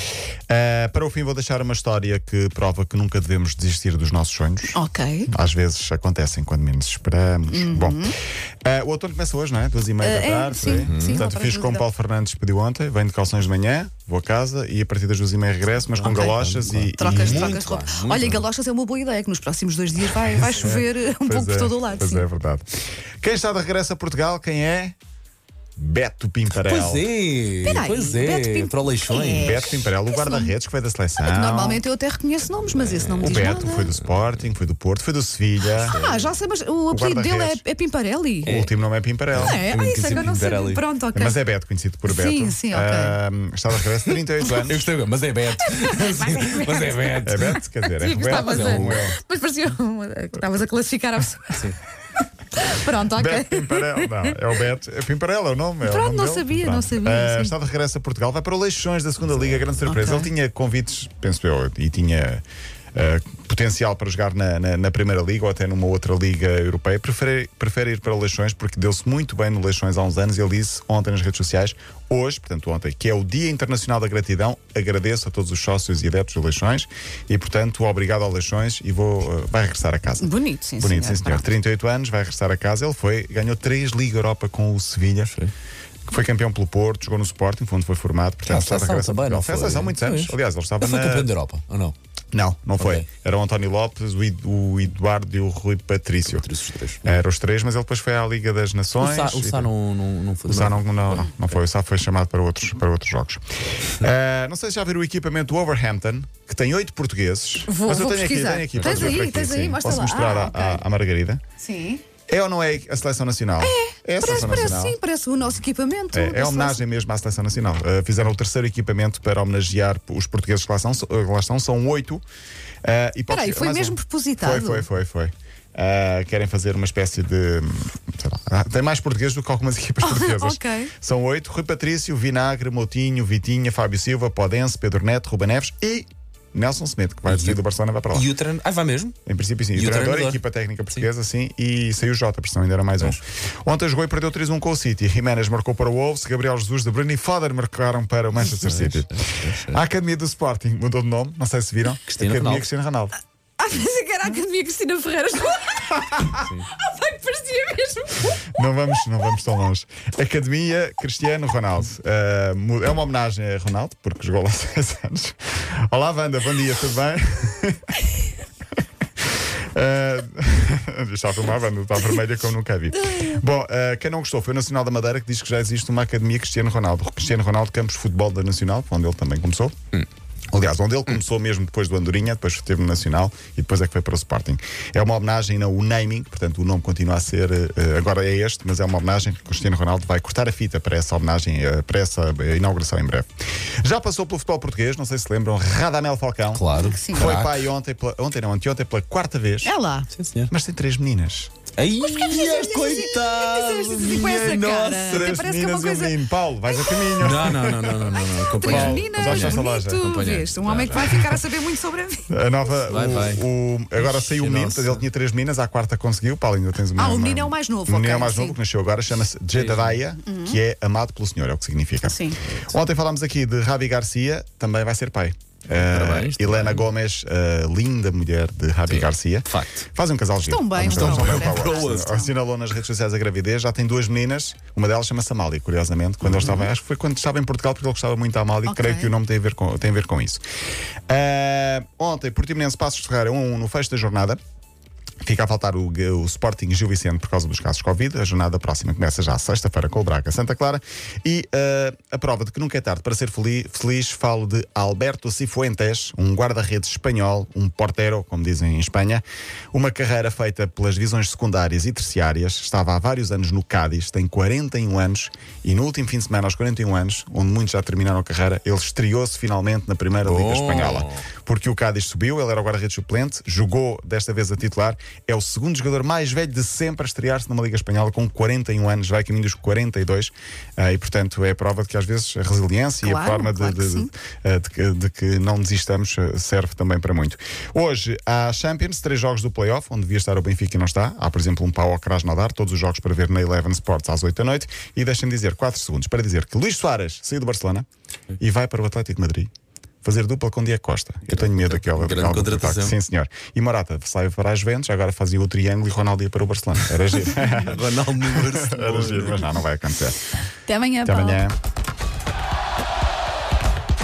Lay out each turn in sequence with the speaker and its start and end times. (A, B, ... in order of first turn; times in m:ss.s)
0:00.5-0:08.0 A
0:04.7-0:05.3 B
0:07.5-0:08.1 B
0:08.6-0:17.6 A
0:10.0-0:11.9 B
0:10.7-0:11.2 C
0:15.9-0:18.4 C
0:17.0-0:22.3 B
0:20.4-0:22.6 A
0:23.2-0:25.0 A
0:25.8-0:27.0 A
0:26.5-0:29.6 C
0:27.6-0:30.5 B
0:29.3-0:31.8 A
0:31.2-0:33.9 B
0:32.7-0:33.5 C
0:33.2-0:35.9 A
0:35.8-0:36.3 C
0:35.9-0:38.5 B
0:36.9-0:37.6 A
0:38.4-0:38.7 C
0:38.4-0:39.6 A
0:39.3-0:40.8 C
0:39.4-0:41.4 B
0:41.1-0:44.9 A
0:42.1-0:43.2 B
0:44.6-0:47.5 C
0:45.6-0:51.7 B
0:47.2-0:49.2 A
0:48.2-0:49.0 C
0:52.5-0:54.4 B
0:53.1-1:02.4 A
0:55.8-0:57.5 B
0:59.8-1:00.3 B
1:02.9-1:25.4 A
1:20.2-1:21.5 B
1:26.1-1:31.3 A
1:28.4-1:31.9 C
1:32.3-1:36.5 A
1:32.8-1:33.1 C
1:36.2-1:37.2 C
1:37.0-1:39.7 A
1:39.0-1:41.5 C
1:40.5-1:51.4 A
1:47.7-1:50.8 B
1:48.8-1:49.2 C
1:51.6-1:52.0 B
1:52.3-1:55.0 A
1:53.6-1:56.8 B
1:56.1-2:02.2 A
2:02.8-2:18.3 A
2:03.3-2:04.9 B
2:10.0-2:10.9 B
2:17.2-2:17.6 C
2:18.1-2:19.2 C
2:19.2-2:33.2 A
2:19.7-2:20.4 C
2:28.3-2:29.8 C
2:32.1-2:32.7 C
2:33.6-2:38.5 B
2:36.4-2:36.7 C
2:38.5-2:48.0 A
2:49.7-2:59.8 A
2:52.9-2:53.4 B
3:00.5-3:13.3 A
3:13.8-3:16.6 A
3:16.5-3:17.7 C
3:16.7-3:17.3 B
3:17.2-3:19.7 A
3:19.6-3:20.1 B
3:20.1-3:20.5 C
3:20.5-3:21.5 A
3:21.8-3:25.4 C
3:22.0-3:32.3 B
3:25.1-3:27.8 A
3:27.2-3:31.2 C
3:28.6-3:30.2 A
3:32.3-4:00.4 A
3:32.9-3:33.4 C
3:34.0-3:35.0 C
3:36.9-3:38.6 B
3:39.5-3:40.0 C
3:40.2-3:40.6 B
3:42.0-3:42.4 B
3:45.7-3:46.9 C
3:48.8-3:49.9 C
3:50.4-3:52.3 B
3:50.8-3:52.1 C
3:56.2-3:56.6 C
3:58.6-3:59.1 B
4:01.1-4:04.4 A
4:05.2-4:57.9 A
4:30.2-4:31.3 C
4:43.0-4:44.1 B
4:58.4-4:59.5 A
5:00.0-5:10.3 A
5:01.3-5:03.0 C
5:07.6-5:09.5 C
5:10.6-5:11.4 B
5:11.0-5:11.6 A